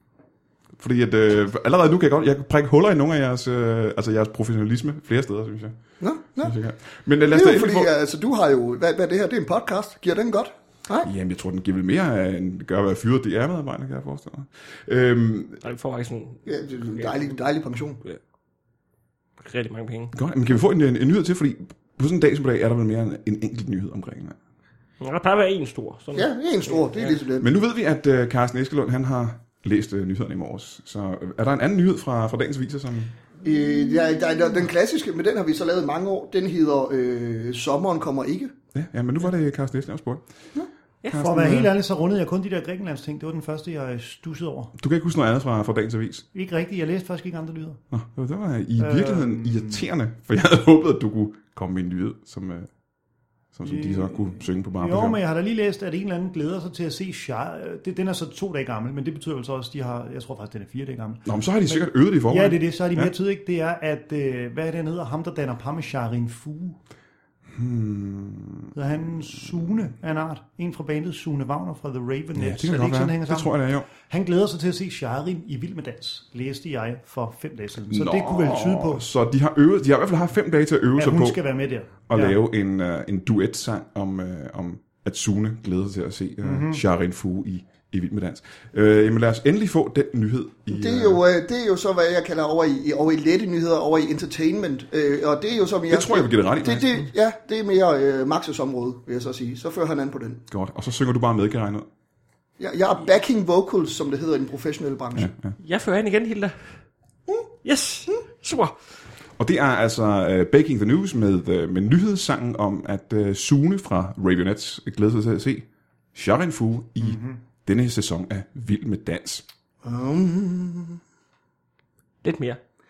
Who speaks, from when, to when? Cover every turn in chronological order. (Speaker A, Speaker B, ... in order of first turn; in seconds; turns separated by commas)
Speaker A: 0.8-5.8, Speaker B: 6.0-6.5, Speaker A: 6.4-7.9, Speaker B: 7.3-11.1, Speaker A: 11.0-15.6, Speaker C: 15.6-17.3, Speaker B: 16.4-18.0, Speaker C: 19.4-20.1, Speaker A: 20.1-24.4, Speaker C: 25.0-27.2, Speaker B: 26.1-27.5, Speaker A: 27.4-33.1, Speaker B: 33.4-38.5, Speaker A: 38.7-40.2, Speaker A: 41.1-41.7, Speaker D: 41.1-44.7, Speaker A: 44.8-46.2, Speaker D: 46.3-47.8, Speaker A: 47.9-52.7, Speaker D: 48.8-49.9, Speaker A: 53.5-55.2, Speaker D: 53.6-66.8, Speaker A: 61.2-63.1, Speaker A: 67.5-68.7, Speaker D: 68.7-79.0, Speaker A: 72.4-73.9, Speaker A: 77.9-81.4, Speaker D: 81.0-82.4, Speaker A: 82.1-91.2, Speaker D: 86.4-86.8, Speaker B: 90.7-100.4, Speaker A: 95.9-96.9, Speaker A: 100.5-101.9, Speaker B: 102.6-105.3, Speaker A: 105.1-105.5, Speaker C: 105.6-106.7, Speaker C: 107.6-108.7, Speaker A: 109.4-119.4, Speaker D: 117.0-117.4, Speaker B: 119.8-121.0, Speaker C: 122.2-122.6